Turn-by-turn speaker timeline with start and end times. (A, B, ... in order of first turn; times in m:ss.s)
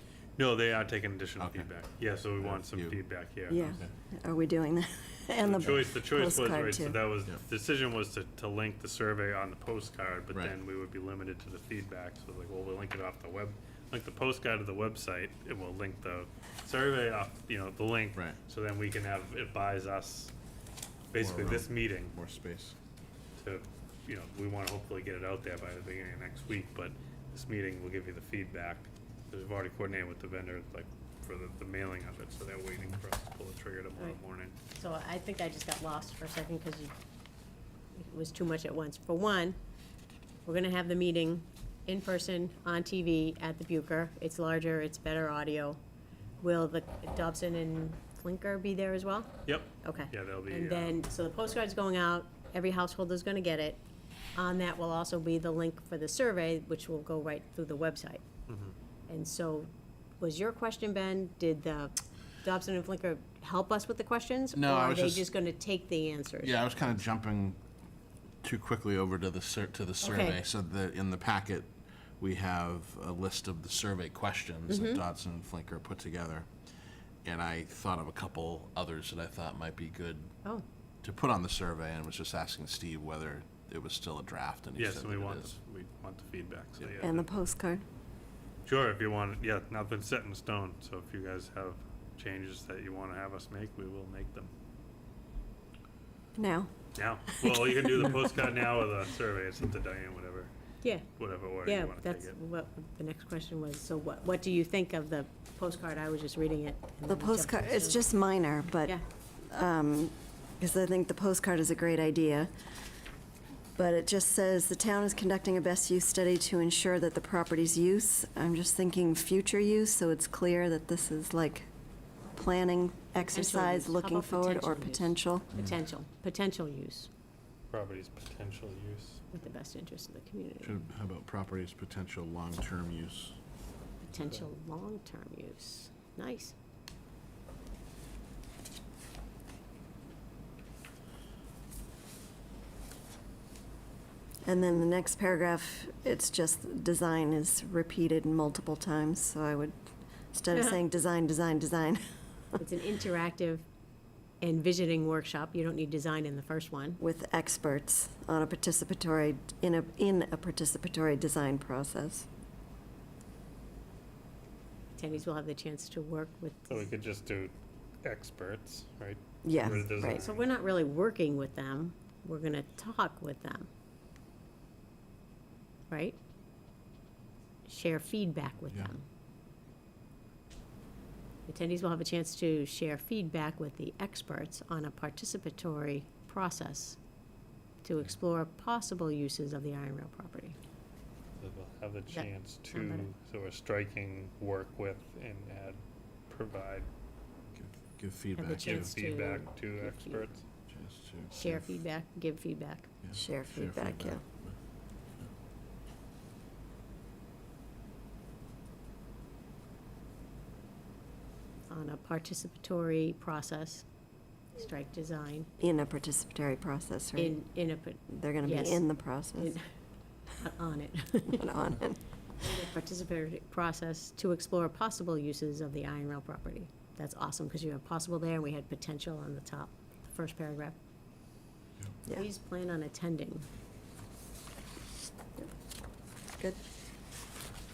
0:00.4-0:03.7 A
0:01.4-0:01.7 B
0:02.4-0:03.0 B
0:03.5-0:07.0 C
0:03.6-0:03.9 B
0:05.5-0:20.3 A
0:21.1-0:22.1 A
0:21.2-0:22.8 B
0:23.4-0:34.6 A
0:34.7-0:36.9 D
0:38.0-0:39.6 D
0:40.4-0:45.8 D
0:46.4-0:53.8 D
0:49.4-0:51.0 A
0:54.3-0:58.2 D
0:58.5-0:58.7 A
0:59.1-0:59.7 D
1:00.2-1:06.7 D
1:04.5-1:05.3 B
1:06.4-1:07.6 B
1:08.4-1:16.7 B
1:10.0-1:10.4 D
1:14.7-1:15.0 D
1:17.2-1:20.3 B
1:21.0-1:25.5 B
1:24.8-1:27.2 A
1:27.0-1:27.8 C
1:28.6-1:34.5 A
1:36.3-1:36.7 C
1:36.9-1:40.5 A
1:37.4-1:38.4 C
1:40.8-1:48.1 D
1:41.1-1:42.3 A
1:47.1-1:52.5 C
1:53.8-2:01.7 C
2:02.3-2:05.5 C
2:03.2-2:07.1 D
2:07.7-2:09.2 A
2:09.3-2:10.8 D
2:10.6-2:13.4 B
2:14.0-2:16.5 D
2:14.1-2:14.5 A
2:24.4-2:29.8 C
2:30.3-2:32.6 C
2:30.5-2:30.8 D
2:32.6-2:33.6 D
2:34.4-2:37.0 D
2:37.0-2:42.3 C
2:45.0-2:46.9 D
2:46.7-2:50.5 A
2:49.4-2:50.2 C
2:50.0-2:53.7 D
2:55.9-2:56.2 D
2:57.6-2:59.0 D
2:58.7-2:58.9 B
3:01.5-3:07.0 D
3:07.8-3:10.6 D
3:11.4-3:16.9 A
3:12.1-3:13.1 D
3:17.5-3:18.9 B
3:18.4-3:20.3 D
3:18.6-3:20.4 A
3:20.7-3:21.8 B
3:21.3-3:22.9 D
3:23.0-3:24.6 B
3:23.1-3:24.2 C
3:31.7-3:33.8 D
3:34.5-3:35.5 D
3:35.6-3:37.4 C
3:37.2-3:39.6 D
3:38.1-3:39.6 C
3:40.4-3:41.5 D
3:41.3-3:42.0 C
3:42.4-3:50.8 D
3:52.1-3:53.4 D